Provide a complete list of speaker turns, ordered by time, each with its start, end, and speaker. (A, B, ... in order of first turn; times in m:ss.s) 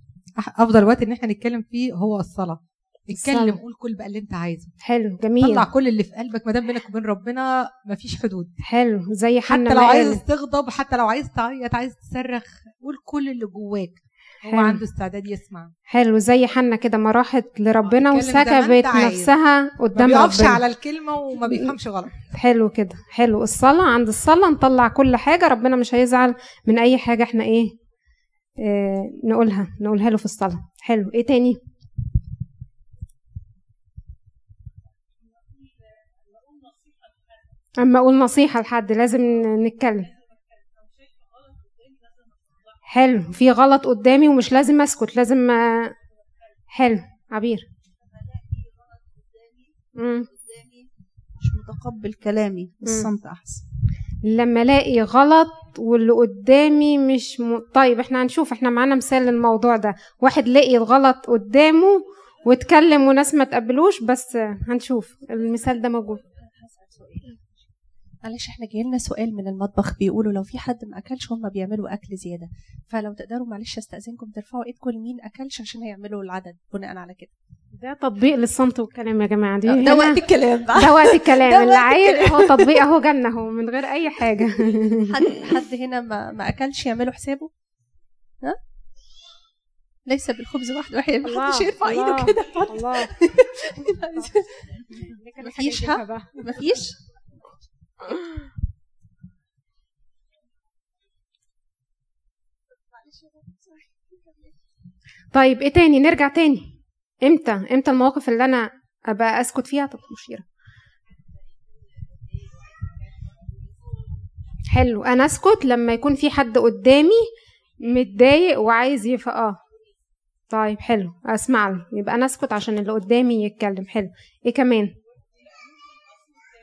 0:00.4-0:04.7 A
0:03.1-0:03.6 B
0:04.8-0:05.6 B
0:05.4-0:08.5 A
0:08.6-0:10.2 B
0:09.5-0:15.7 A
0:14.5-0:14.8 B
0:15.9-0:20.6 B
0:17.9-0:19.3 A
0:19.9-0:22.1 A
0:22.3-0:27.7 B
0:28.6-0:31.6 B
0:37.8-0:40.1 B
0:42.9-0:45.9 B
0:46.7-0:47.6 B
0:50.0-0:50.3 B
0:51.4-0:53.6 C
0:52.8-0:53.1 B
0:54.2-1:06.2 B
1:06.6-1:07.4 D
1:08.2-1:17.3 D
1:17.8-1:20.2 B
1:19.6-1:22.8 D
1:20.7-1:25.1 B
1:25.1-1:27.5 D
1:30.1-1:34.5 D
1:31.2-1:33.1 B
1:35.2-1:36.3 B
1:35.4-1:37.0 D
1:43.4-1:43.7 D
1:45.3-1:46.7 B
1:47.2-1:50.4 B
1:54.7-1:57.3 B
1:57.8-1:59.6 B
2:00.5-2:04.9 B